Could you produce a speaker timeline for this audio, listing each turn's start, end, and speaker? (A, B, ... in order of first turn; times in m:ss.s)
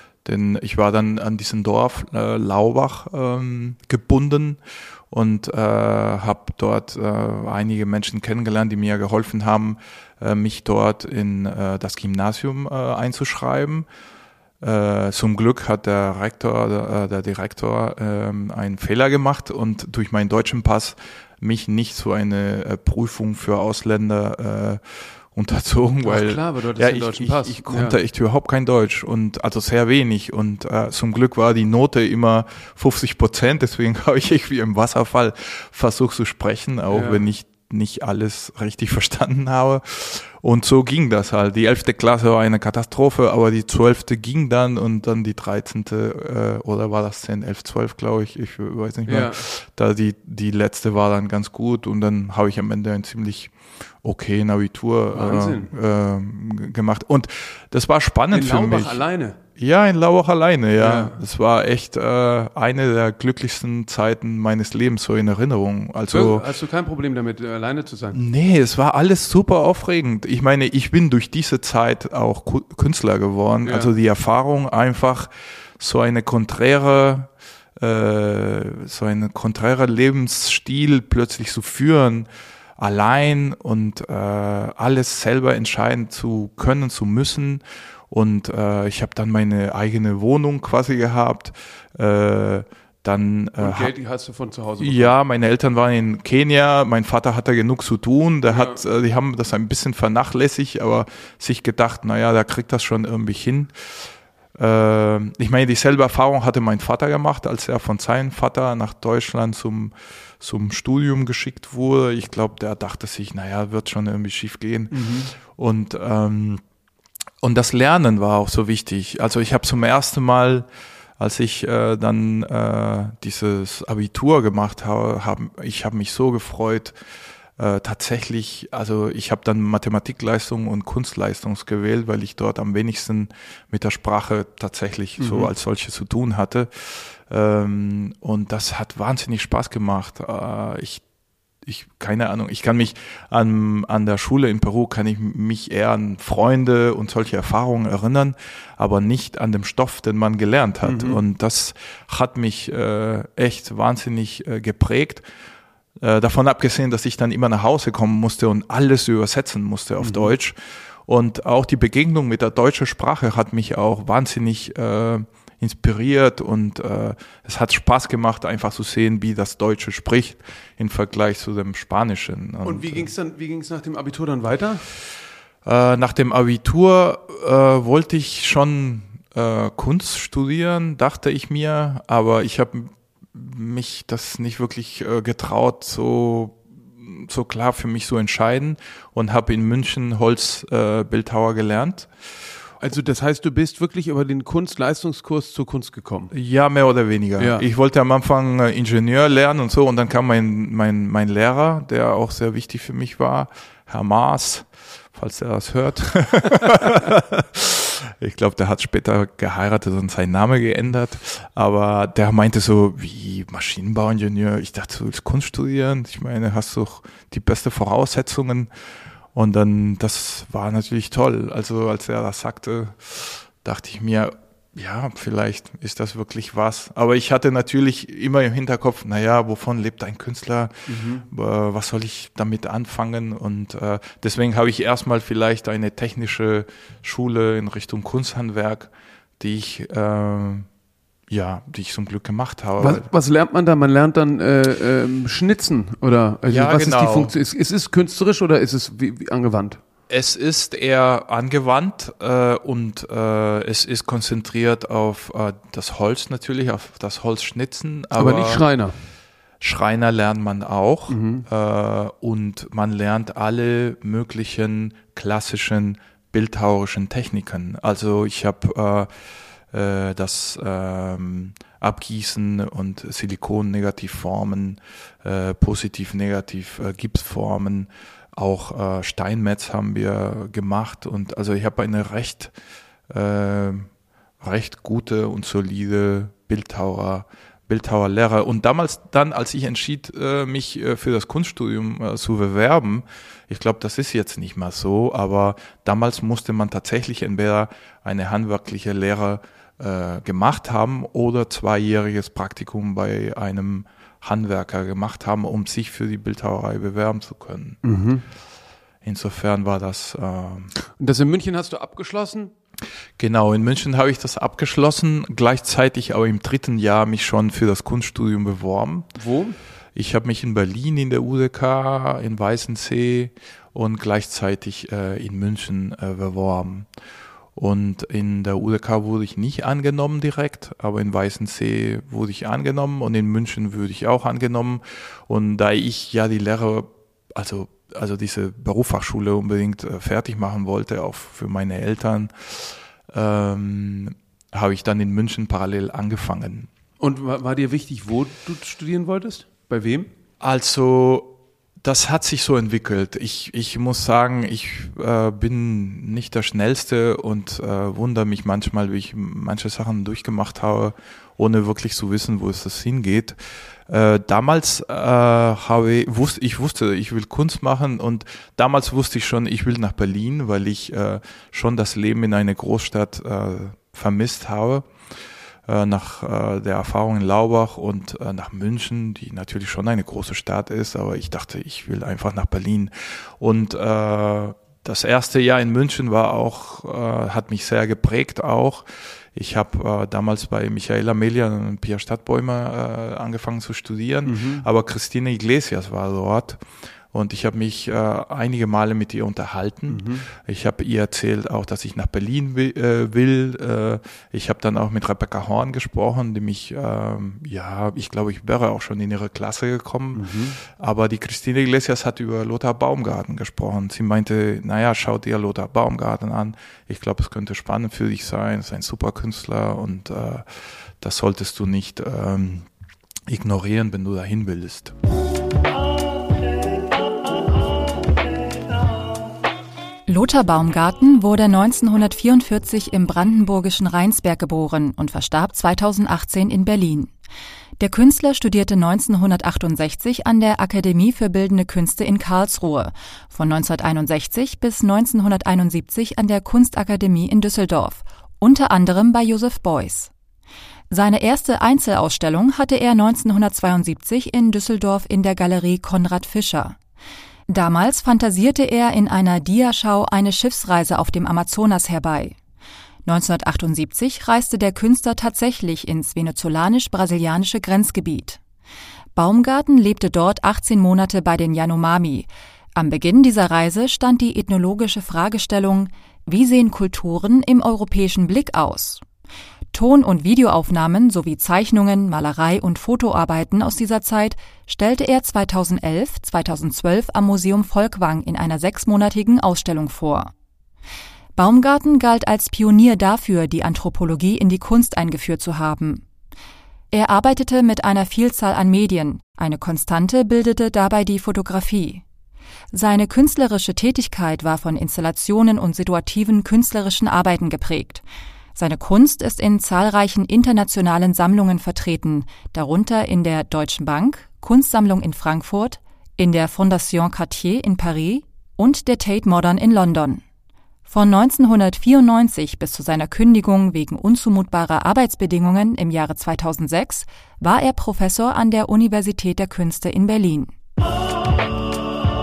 0:00.2-0:04.6 A
0:05.1-0:13.8 A
0:14.6-0:59.0 A
0:26.0-0:28.0 B
0:36.9-0:37.2 B
0:49.1-0:49.4 B
0:55.1-0:55.7 B
0:58.3-0:59.4 B
0:59.6-1:06.5 A
1:00.8-1:01.2 B
1:06.1-1:08.2 B
1:08.1-1:33.9 A
1:13.6-1:13.9 B
1:33.6-1:35.1 B
1:34.8-1:43.7 A
1:38.5-1:38.8 B
1:44.6-1:56.6 A
1:54.9-1:55.3 B
1:57.4-2:00.6 A
2:01.2-2:07.0 A
2:07.6-2:21.0 A
2:15.2-2:15.5 B
2:21.6-2:35.2 A
2:30.8-2:31.2 B
2:36.0-2:53.1 A
2:40.0-2:40.3 B
2:52.6-2:54.8 B
2:55.6-3:12.1 A
3:12.8-3:16.3 B
3:16.3-3:38.7 A
3:17.4-3:17.6 B
3:39.3-4:00.7 A
3:50.9-3:51.2 B
4:01.3-4:03.1 A
4:02.8-4:09.8 B
4:06.5-4:07.3 A
4:10.1-4:18.6 A
4:18.2-4:18.9 B
4:19.6-4:29.1 A
4:21.1-4:21.4 B
4:29.7-4:42.5 A
4:43.1-4:43.9 A
4:44.4-5:07.8 A
5:07.8-5:08.2 B
5:09.0-5:10.7 A
5:10.9-5:12.5 B
5:13.2-5:19.1 A
5:19.1-5:19.6 B
5:19.9-5:26.9 A
5:27.5-5:46.7 A
5:47.0-5:50.1 B
5:50.4-6:03.4 A
6:03.9-6:14.8 A
6:15.7-6:36.6 A
6:34.2-6:34.6 B
6:37.1-7:00.4 A
6:39.9-6:40.2 B
6:50.1-6:50.6 B
7:01.0-7:02.7 A
7:03.3-7:04.9 A
7:10.1-7:17.1 C
7:17.8-7:30.1 C
7:30.9-7:36.8 C
7:37.5-7:42.4 C
7:43.0-7:48.4 C
7:49.1-7:59.0 C
7:59.7-8:10.3 C
8:11.4-8:16.0 C
8:16.9-8:22.0 C
8:22.7-8:28.0 C
8:28.6-8:40.2 C
8:40.9-8:50.5 C